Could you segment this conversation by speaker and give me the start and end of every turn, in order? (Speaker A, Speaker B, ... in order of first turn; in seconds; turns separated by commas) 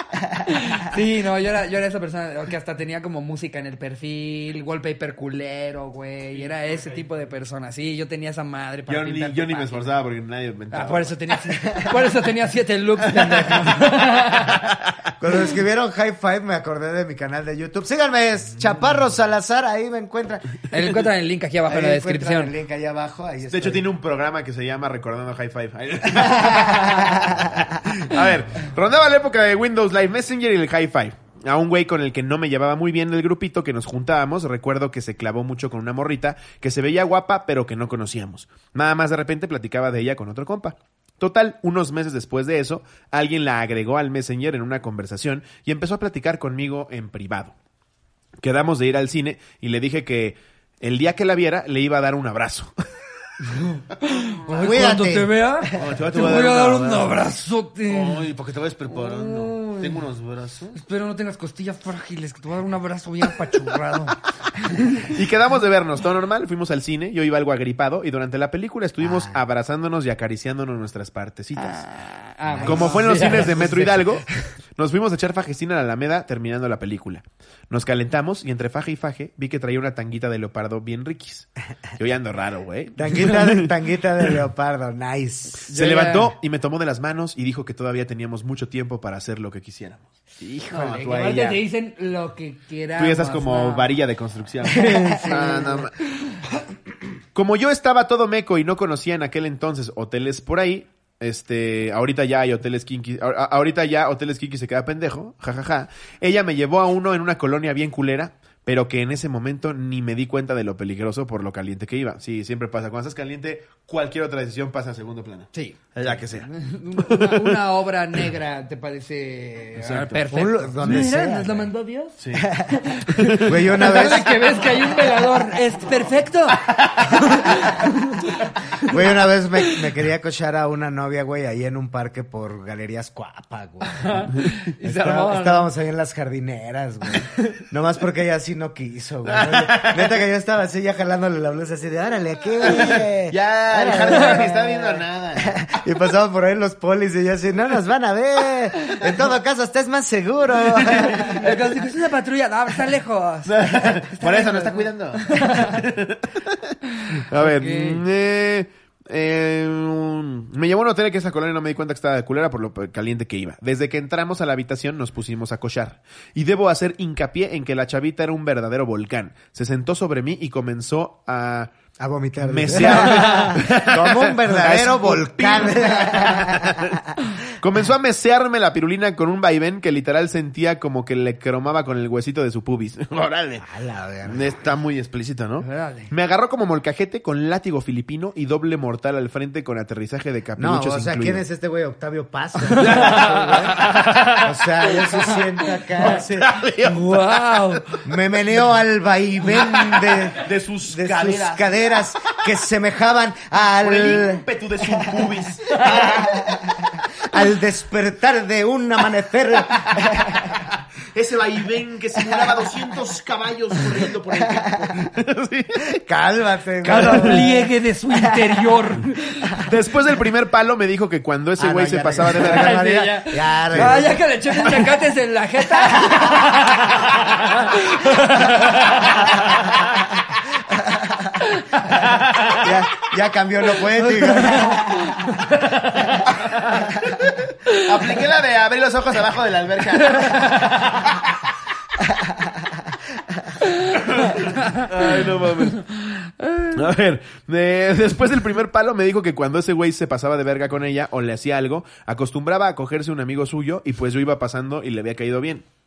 Speaker A: 0.5-9.9, Speaker B: 8.9-11.2, Speaker A: 10.7-14.8, Speaker B: 13.3-13.7, Speaker B: 14.6-15.1, Speaker C: 15.2-20.6, Speaker A: 20.7-22.5, Speaker C: 21.7-23.9, Speaker B: 23.5-47.5, Speaker C: 26.4-27.7, Speaker B: 48.4-52.7, Speaker A: 53.4-58.3, Speaker C: 54.5-55.8, Speaker B: 55.8-57.2, Speaker B: 57.9-60.8, Speaker A: 58.9-60.0, Speaker A: 60.8-65.1, Speaker B: 65.0-71.8, Speaker C: 69.0-69.4, Speaker A: 71.6-74.4, Speaker C: 72.5-73.4, Speaker B: 72.6-83.7, Speaker C: 83.0-85.7, Speaker A: 85.7-86.3, Speaker B: 85.7-90.2, Speaker A: 90.4-93.9, Speaker B: 90.7-91.6, Speaker B: 93.0-95.9, Speaker A: 94.6-96.5, Speaker B: 97.3-117.6, Speaker A: 115.5-129.8, Speaker B: 119.8-120.2, Speaker C: 120.3-121.7, Speaker B: 120.8-121.1, Speaker B: 122.2-122.5, Speaker C: 122.4-122.8, Speaker B: 123.0-124.6, Speaker C: 123.4-124.4, Speaker B: 126.6-127.5, Speaker C: 128.9-134.3, Speaker A: 133.9-135.7, Speaker C: 134.8-151.4, Speaker B: 139.3-140.2, Speaker B: 142.6-145.8, Speaker A: 144.0-144.5, Speaker B: 150.7-151.6, Speaker A: 150.9-155.9, Speaker B: 153.5-171.7, Speaker A: 157.0-158.0, Speaker C: 172.0-177.1, Speaker B: 172.4-183.7, Speaker A: 172.9-173.5, Speaker C: 183.6-184.6, Speaker B: 184.2-191.4, Speaker A: 185.6-186.1, Speaker C: 190.6-196.6, Speaker A: 192.7-195.8, Speaker B: 192.8-194.2, Speaker B: 196.0-197.4, Speaker A: 196.8-198.0, Speaker C: 198.0-210.6, Speaker B: 199.5-201.7, Speaker B: 203.8-206.5, Speaker B: 209.9-216.0, Speaker C: 212.3-212.7, Speaker C: 214.3-215.1, Speaker C: 215.9-218.7, Speaker A: 216.8-219.7, Speaker B: 216.9-217.4, Speaker B: 219.6-222.8, Speaker C: 221.6-224.2, Speaker A: 222.3-229.8, Speaker B: 223.7-224.1, Speaker C: 225.8-226.6, Speaker C: 229.5-229.9, Speaker C: 230.7-231.4, Speaker A: 231.4-232.7, Speaker B: 232.0-232.6, Speaker C: 232.6-235.4, Speaker A: 233.8-236.2, Speaker B: 236.2-241.2, Speaker A: 240.0-240.9, Speaker A: 243.6-246.9, Speaker B: 243.9-245.8, Speaker B: 246.7-255.7